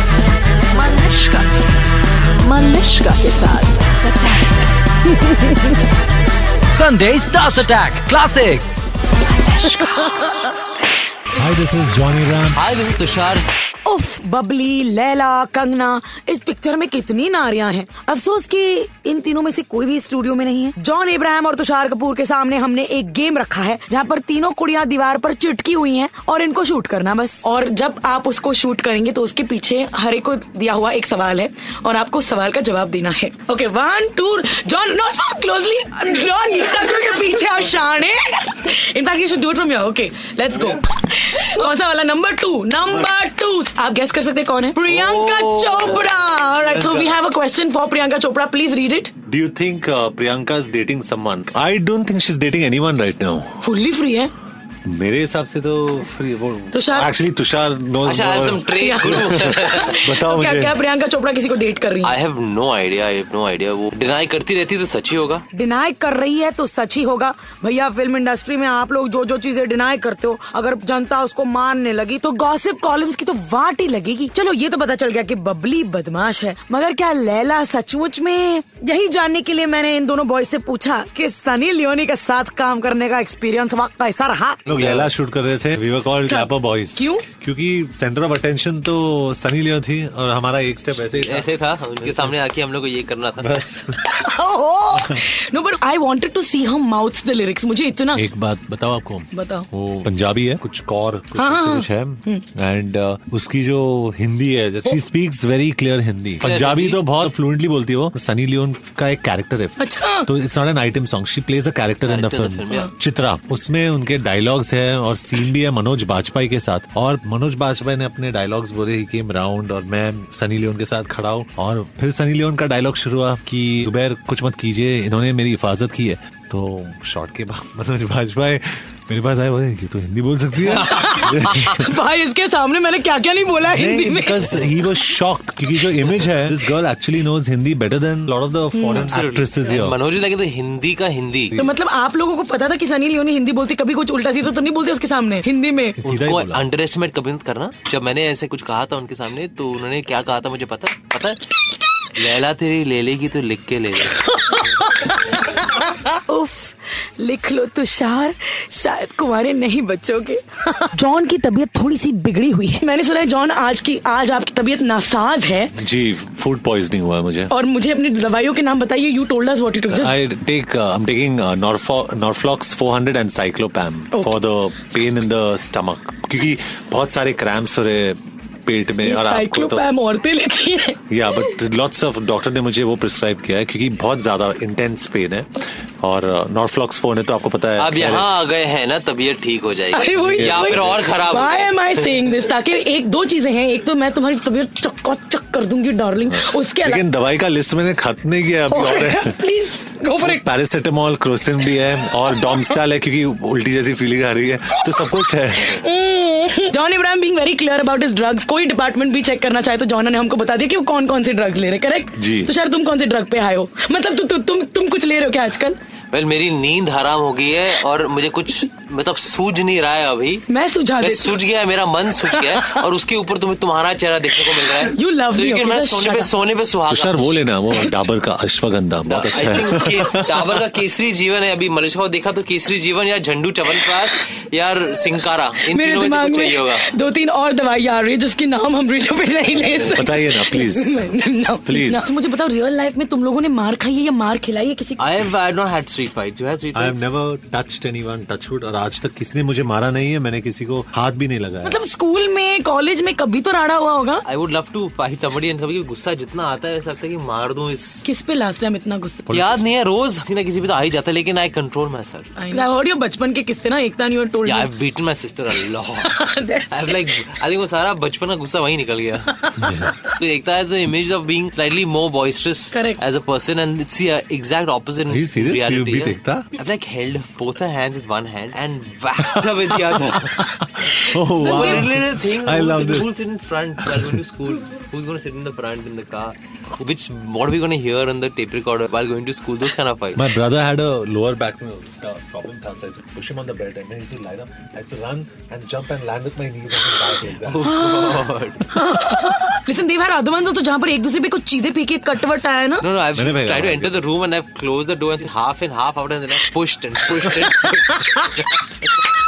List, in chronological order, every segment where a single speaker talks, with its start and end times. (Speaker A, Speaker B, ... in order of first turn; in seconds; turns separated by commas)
Speaker A: 0.7-1.5, Speaker A: 2.4-4.6, Speaker B: 6.7-8.7, Speaker A: 9.3-10.3, Speaker C: 11.3-12.6, Speaker D: 12.5-13.5, Speaker E: 13.8-49.1, Speaker D: 44.9-46.0, Speaker C: 46.5-47.2, Speaker C: 49.2-53.6, Speaker E: 53.6-54.3, Speaker C: 54.8-60.8, Speaker E: 56.7-57.1, Speaker D: 58.0-60.0, Speaker E: 58.7-62.1, Speaker D: 62.0-65.4, Speaker E: 65.5-84.6, Speaker C: 84.7-92.3, Speaker D: 84.7-85.1, Speaker E: 86.2-87.2, Speaker D: 90.9-93.6, Speaker C: 93.4-94.0, Speaker E: 94.0-98.2, Speaker C: 94.9-95.2, Speaker C: 98.1-131.8, Speaker E: 99.3-99.7, Speaker E: 101.4-102.4, Speaker D: 106.4-107.0, Speaker E: 109.8-110.3, Speaker D: 112.0-112.9, Speaker D: 130.7-131.5, Speaker E: 130.8-134.6, Speaker C: 133.6-140.0, Speaker E: 138.7-139.1, Speaker D: 138.9-141.5, Speaker E: 141.6-146.0, Speaker C: 146.0-146.6, Speaker D: 146.0-151.5, Speaker D: 152.1-154.4, Speaker E: 154.5-155.5, Speaker E: 156.3-165.7, Speaker C: 165.8-167.5, Speaker E: 167.5-170.1, Speaker C: 169.9-179.9, Speaker E: 179.0-181.0, Speaker C: 181.1-188.3, Speaker D: 187.8-192.3, Speaker E: 189.9-197.0, Speaker C: 190.1-191.1, Speaker C: 196.3-199.4, Speaker E: 198.7-200.4, Speaker C: 200.2-205.8, Speaker E: 205.6-215.8, Speaker C: 212.2-212.5, Speaker D: 216.1-220.4, Speaker E: 220.5-221.3, Speaker D: 221.0-227.3, Speaker E: 224.8-226.3, Speaker C: 226.9-230.6, Speaker D: 229.1-236.9, Speaker E: 235.7-245.1, Speaker C: 239.9-241.1, Speaker C: 241.6-242.1, Speaker D: 245.0-247.0, Speaker C: 246.7-251.8, Speaker E: 251.6-254.2, Speaker D: 254.2-258.1, Speaker E: 258.0-259.2, Speaker C: 259.3-259.6, Speaker D: 259.3-262.5, Speaker E: 262.4-264.7, Speaker D: 264.4-280.5, Speaker E: 266.0-266.8, Speaker C: 269.6-270.0, Speaker E: 272.7-273.0, Speaker C: 275.1-276.5, Speaker C: 279.9-283.1, Speaker D: 281.0-290.2, Speaker E: 281.4-281.8, Speaker C: 283.8-284.2, Speaker C: 290.1-297.7, Speaker D: 297.3-298.8, Speaker E: 297.8-302.8, Speaker D: 302.8-308.6, Speaker C: 303.1-304.0